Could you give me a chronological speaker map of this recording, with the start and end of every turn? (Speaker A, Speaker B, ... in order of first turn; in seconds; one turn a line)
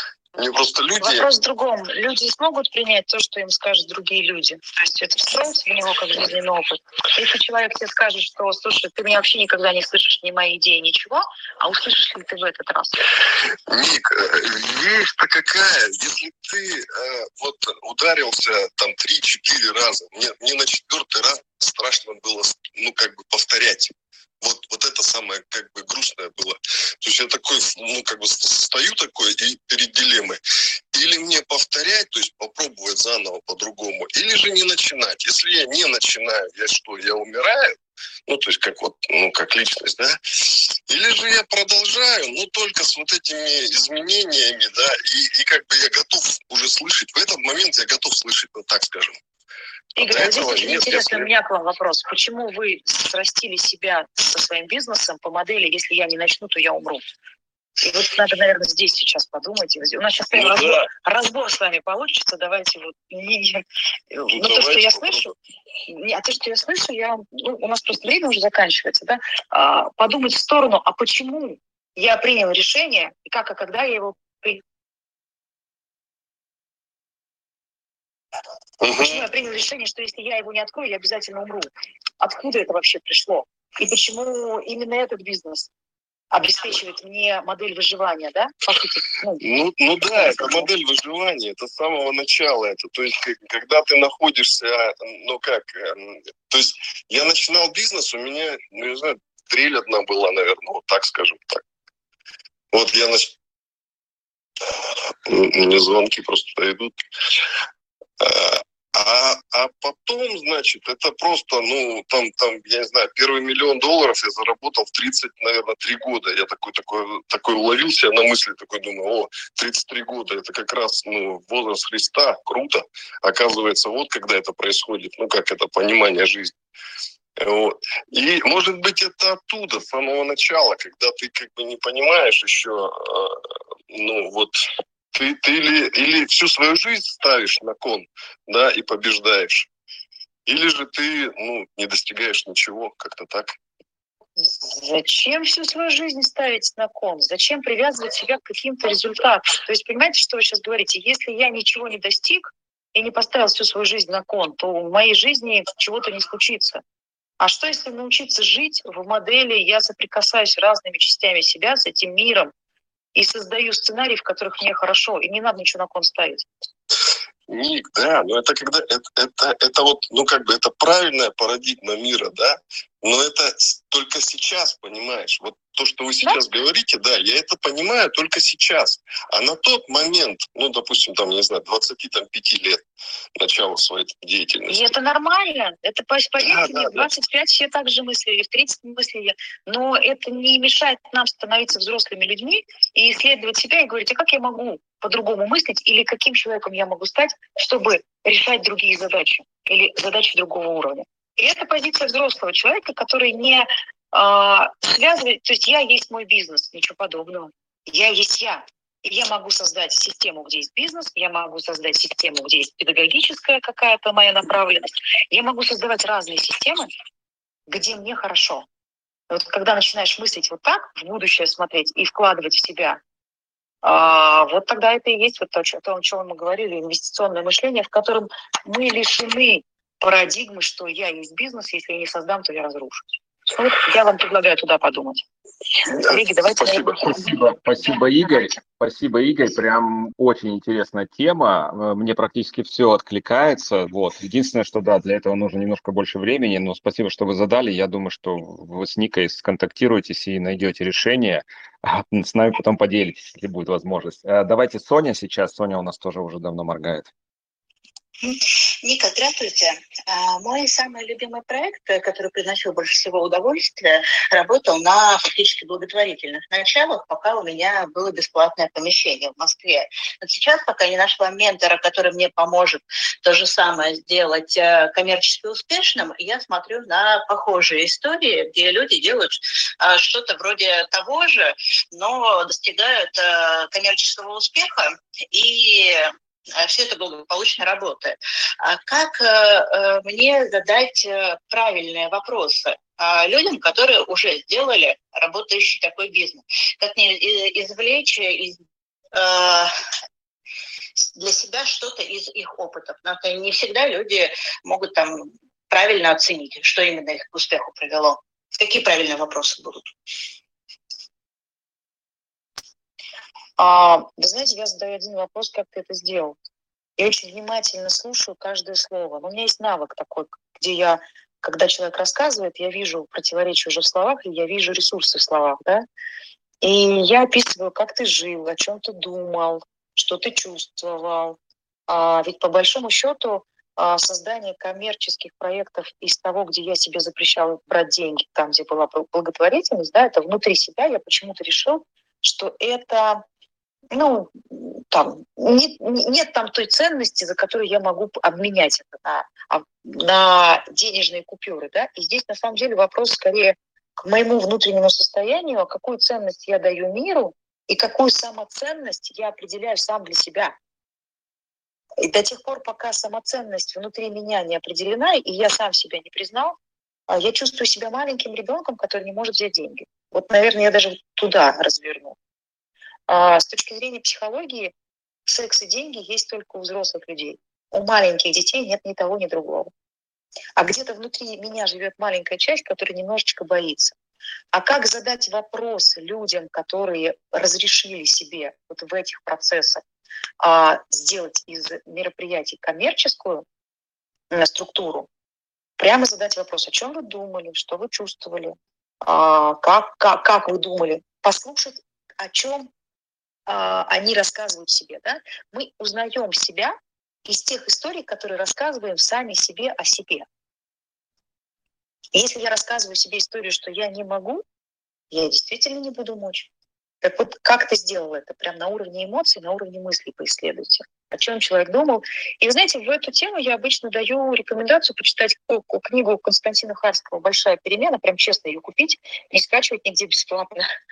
Speaker A: 0.3-1.3
Speaker B: 1.0-13.1
Speaker A: 13.7-30.4
Speaker A: 30.9-49.2
Speaker B: 50.0-57.0
Speaker A: 50.0-51.3
Speaker B: 57.8-65.3
Speaker A: 60.3-60.9
Speaker A: 64.3-65.3
Speaker B: 65.9-74.6
Speaker A: 78.8-79.3
Speaker B: 79.0-81.7
Speaker B: 82.2-85.7
Speaker B: 86.3-89.4
Speaker A: 89.4-101.6
Speaker B: 90.1-90.7
Speaker A: 102.7-103.3
Speaker A: 105.3-107.0
Speaker A: 108.2-126.5
Speaker A: 127.4-134.6
Speaker A: 135.1-139.7
Speaker A: 140.4-143.6
Speaker B: 144.4-156.8
Speaker B: 157.4-162.5
Speaker B: 163.2-166.5
Speaker A: 167.5-182.8
Speaker A: 183.4-184.9
Speaker B: 184.7-216.9
Speaker A: 186.4-187.1
Speaker B: 217.7-218.7
Speaker B: 219.3-223.0
Speaker B: 223.8-235.2
Speaker A: 235.9-237.1
Speaker B: 236.1-237.3
Speaker C: 237.1-257.1
Speaker D: 258.2-298.6
Speaker D: 299.1-299.7
Speaker D: 301.1-309.9
Speaker B: 313.6-316.4
Speaker B: 317.0-325.9
Speaker B: 326.6-331.4
Speaker B: 331.9-343.2
Speaker B: 343.9-360.5
Speaker B: 362.0-366.6
Speaker B: 367.1-372.1
Speaker B: 373.1-374.7
Speaker B: 375.3-379.7
Speaker B: 380.6-383.9
Speaker B: 384.5-389.8
Speaker B: 390.4-393.4
Speaker B: 394.3-395.1
Speaker B: 395.8-402.7
Speaker B: 403.5-410.3
Speaker B: 412.1-414.4
Speaker B: 415.1-416.5
Speaker B: 417.0-430.7